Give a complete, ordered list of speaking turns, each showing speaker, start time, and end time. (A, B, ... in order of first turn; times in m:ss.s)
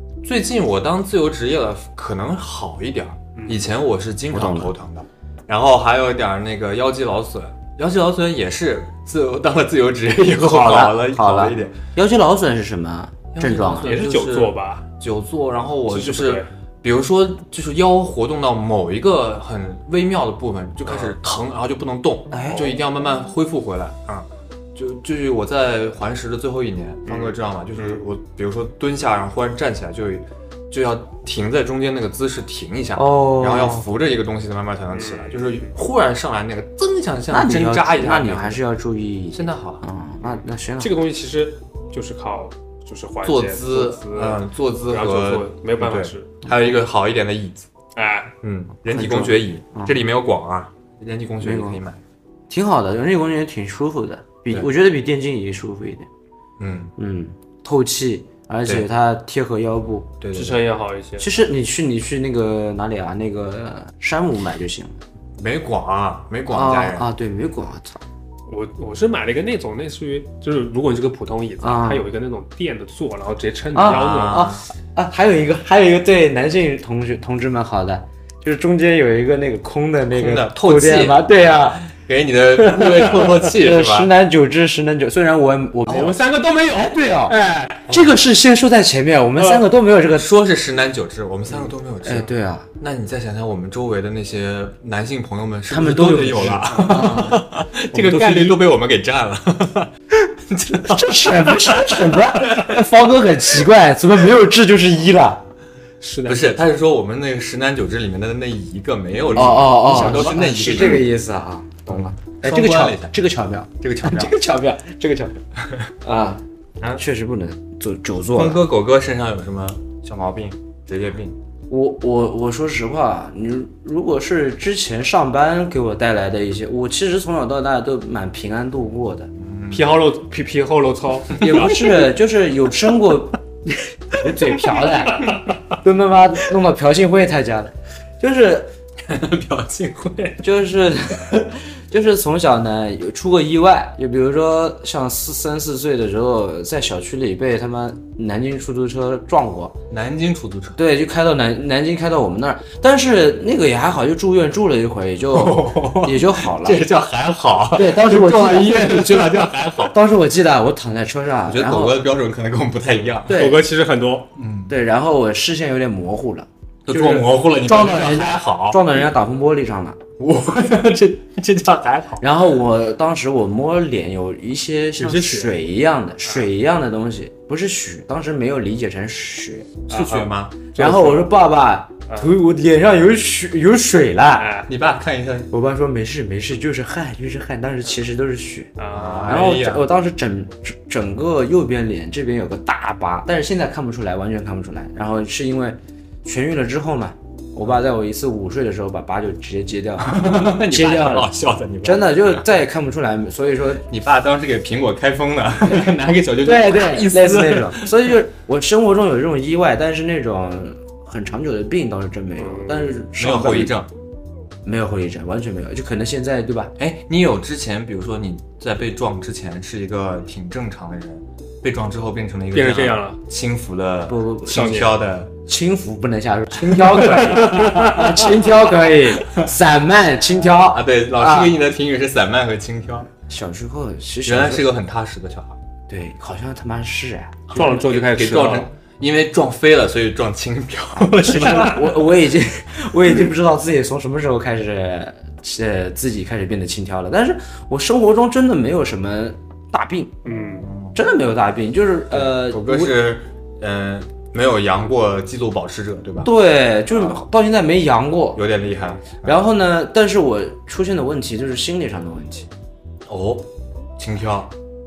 0:00.2-0:11.8 A
0:03.4-0:03.7 B
0:04.3-0:04.7 C
0:10.3-0:14.0 C
0:13.3-0:38.6 A
0:13.8-0:14.8 B
0:15.9-0:16.5 B
0:20.9-0:21.2 B
0:22.3-0:22.7 C
0:27.1-0:28.0 B
0:33.0-0:33.9 C
0:34.9-0:35.7 B
0:37.3-0:41.0 C
0:39.3-0:39.8 A
0:40.3-0:46.4 B
0:43.2-0:47.7 A
0:48.0-0:48.3 B
0:48.4-0:52.0 A
0:48.9-0:50.0 C
0:51.4-0:51.8 C
0:52.5-0:56.1 C
0:56.6-0:56.9 A
0:57.0-1:00.2 C
1:00.2-1:00.6 A
1:00.3-1:01.4 B
1:01.2-1:05.0 C
1:05.4-1:07.1 A
1:06.5-1:08.0 C
1:08.5-1:14.5 B
1:11.6-1:12.1 C
1:13.7-1:21.9 C
1:13.8-1:14.6 A
1:20.1-1:21.3 A
1:21.9-1:24.1 A
1:23.5-1:30.3 C
1:25.9-1:26.1 A
1:25.9-1:27.9 B
1:30.1-1:42.8 A
1:32.0-1:32.7 C
1:35.7-1:37.5 C
1:37.9-1:38.7 B
1:40.8-1:45.4 C
1:46.0-1:46.5 B
1:46.3-1:51.1 A
1:49.3-1:50.3 B
1:49.3-1:55.4 C
1:51.8-1:53.2 A
1:53.8-1:54.3 A
1:56.0-1:56.4 C
1:57.0-1:58.6 C
1:58.3-2:01.4 A
2:01.7-2:09.3 C
2:09.4-2:09.9 A
2:09.7-2:12.0 B
2:11.4-2:18.7 C
2:19.0-2:20.4 A
2:20.4-2:29.8 C
2:29.9-2:30.8 A
2:30.8-2:36.8 C
2:35.3-2:40.0 A
2:37.7-2:39.3 C
2:39.8-2:42.0 C
2:41.5-2:43.4 A
2:43.3-2:43.6 C
2:43.3-2:44.3 B
2:44.4-2:44.7 A
2:44.7-2:50.0 C
2:46.8-2:49.0 A
2:50.2-2:52.2 A
2:52.2-2:59.7 C
2:55.0-2:55.6 B
2:59.9-3:00.6 A
2:59.9-3:01.3 B
3:00.8-3:04.5 C
3:02.1-3:02.3 B
3:04.4-3:04.7 B
3:04.7-3:05.5 A
3:05.5-3:08.7 C
3:08.8-3:09.6 B
3:08.9-3:09.9 A
3:09.3-3:21.3 C
3:20.0-3:22.5 A
3:21.8-3:23.8 C
3:23.8-3:28.0 A
3:26.4-3:33.7 C
3:32.4-3:33.0 B
3:33.2-3:33.9 A
3:34.6-3:36.7 C
3:36.8-3:45.3 A
3:42.5-3:43.2 B
3:44.1-3:44.9 C
3:44.5-3:44.9 B
3:45.5-3:51.6 C
3:46.8-3:48.2 A
3:50.4-3:53.1 A
3:53.3-3:54.7 C
3:54.2-3:55.6 A
3:55.9-3:57.5 C
3:57.5-4:01.9 A
3:57.5-3:58.7 B
4:01.0-4:10.2 C
4:10.2-4:10.7 B
4:10.6-4:11.0 A
4:11.0-4:13.0 C
4:12.1-4:16.3 A
4:16.2-4:18.4 C
4:18.4-4:19.4 A
4:19.2-4:22.5 C
4:23.0-4:24.5 A